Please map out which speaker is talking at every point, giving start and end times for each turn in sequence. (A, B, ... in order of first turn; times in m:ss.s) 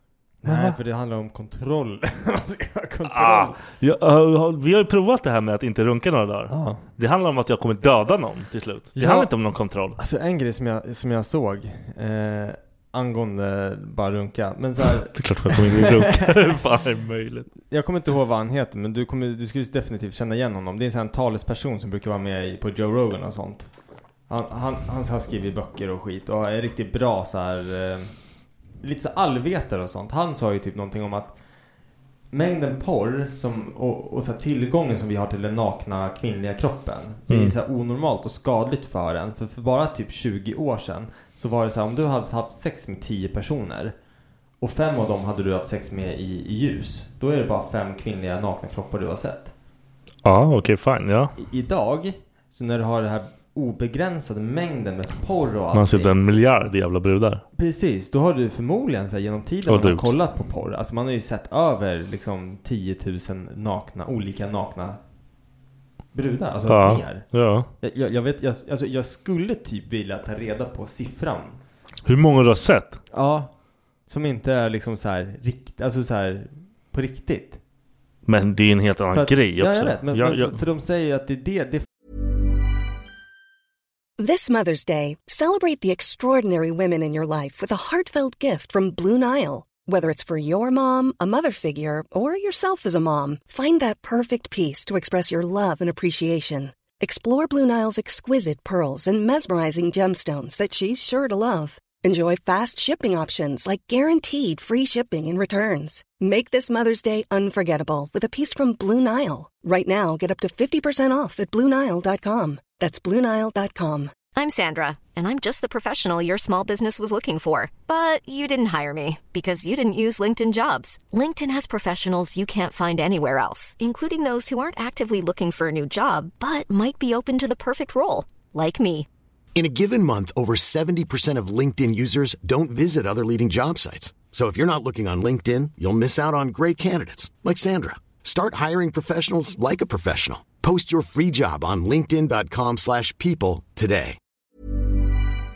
0:00.4-0:03.6 A
0:00.4-0:00.8 B
0:03.1-0:10.0 B
0:06.5-0:06.8 A
0:09.0-0:09.3 A
0:10.0-0:16.5 A
0:15.1-0:17.5 B
0:17.6-0:23.7 A
0:24.3-0:28.1 A
0:28.8-0:31.4 A
0:32.3-0:44.0 A
0:37.3-0:37.6 B
0:44.6-0:49.5 A
0:50.2-0:51.3 B
0:51.4-0:56.2 A
0:55.7-0:57.4 B
0:57.6-1:05.0 A
0:59.7-1:00.1 B
1:06.1-1:11.6 A
1:06.7-1:07.7 B
1:12.1-1:13.0 B
1:13.1-1:13.5 A
1:14.1-1:17.6 A
1:18.3-1:20.6 B
1:19.1-1:21.9 A
1:24.2-1:54.1 C
1:54.4-2:09.1 D
2:09.6-2:24.2 E